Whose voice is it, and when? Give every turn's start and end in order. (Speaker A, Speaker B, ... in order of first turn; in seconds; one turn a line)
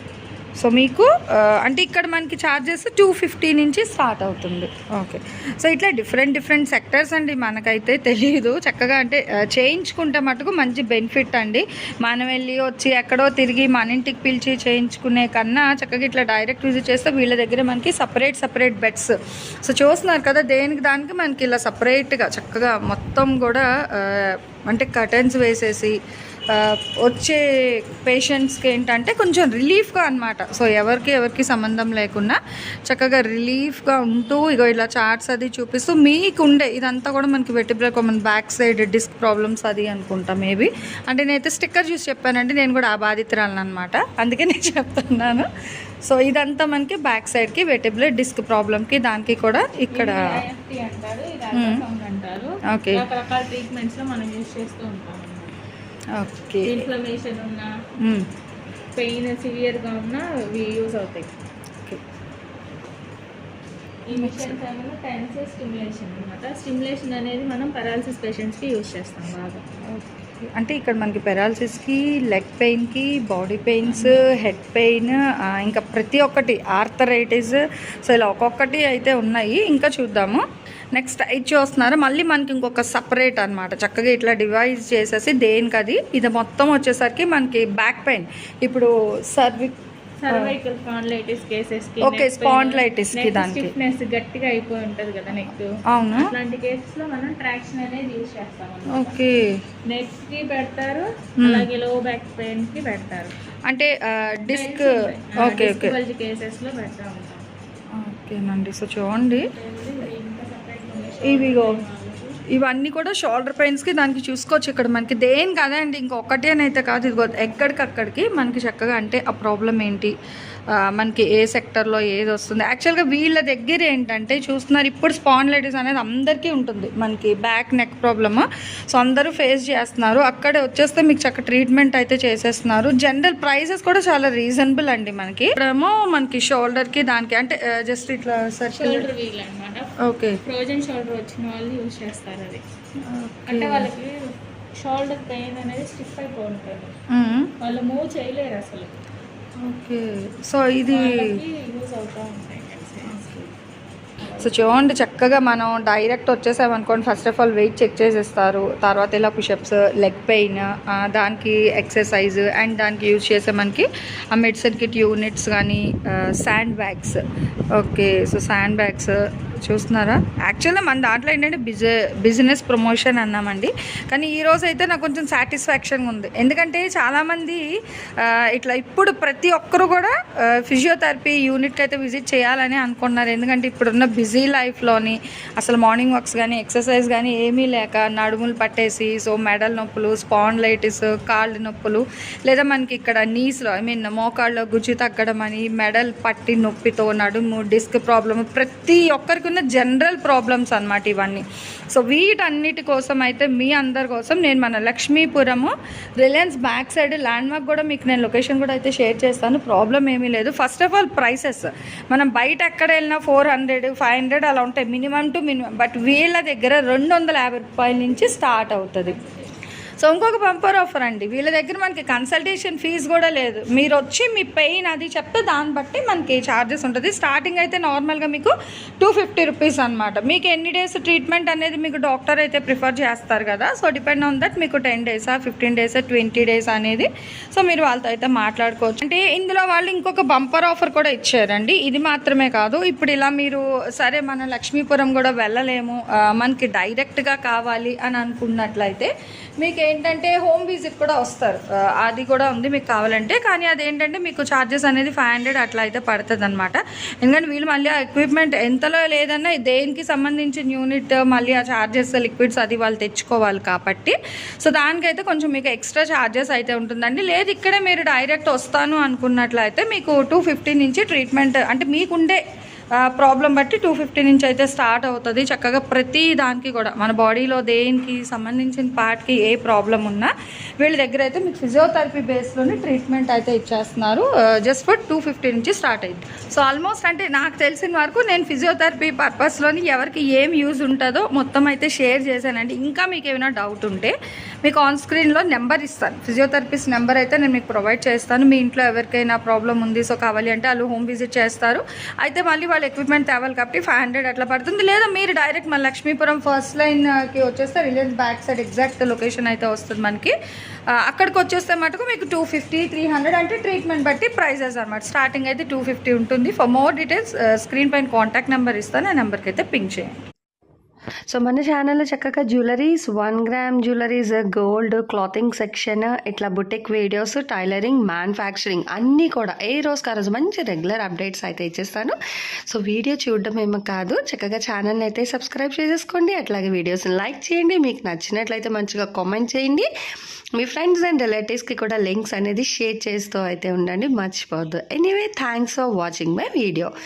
Speaker A: 0.6-19.1
Speaker A: 19.6-25.9
Speaker A: 26.5-45.5
Speaker A: 46.0-50.2
Speaker B: 49.9-55.5
Speaker A: 52.7-53.0
Speaker A: 56.2-56.8
Speaker B: 56.6-57.7
Speaker B: 59.0-61.3
Speaker B: 64.1-69.6
Speaker A: 64.2-64.6
Speaker A: 69.9-80.4
Speaker B: 73.9-74.2
Speaker A: 81.0-89.7
Speaker B: 90.2-99.2
Speaker A: 92.0-93.7
Speaker A: 95.9-96.3
Speaker A: 98.9-99.5
Speaker B: 99.9-103.3
Speaker A: 101.4-101.7
Speaker A: 103.7-104.8
Speaker B: 104.5-107.4
Speaker A: 105.4-106.0
Speaker A: 108.0-109.5
Speaker B: 109.2-112.3
Speaker A: 111.3-111.7
Speaker A: 112.5-120.1
Speaker A: 120.8-139.1
Speaker B: 138.8-139.9
Speaker A: 140.1-140.4
Speaker B: 140.5-142.6
Speaker A: 143.1-143.9
Speaker B: 143.5-144.1
Speaker B: 144.8-146.9
Speaker A: 147.1-147.5
Speaker B: 147.6-148.9
Speaker A: 149.6-151.2
Speaker B: 150.9-153.3
Speaker A: 153.1-153.4
Speaker B: 154.2-154.8
Speaker A: 154.4-167.2
Speaker A: 167.8-177.6
Speaker A: 178.2-180.1
Speaker A: 180.6-219.2
Speaker A: 220.0-272.4
Speaker A: 273.2-310.3
Speaker A: 311.1-320.1
Speaker C: 321.3-332.2
Speaker C: 332.7-339.9
Speaker C: 340.6-346.9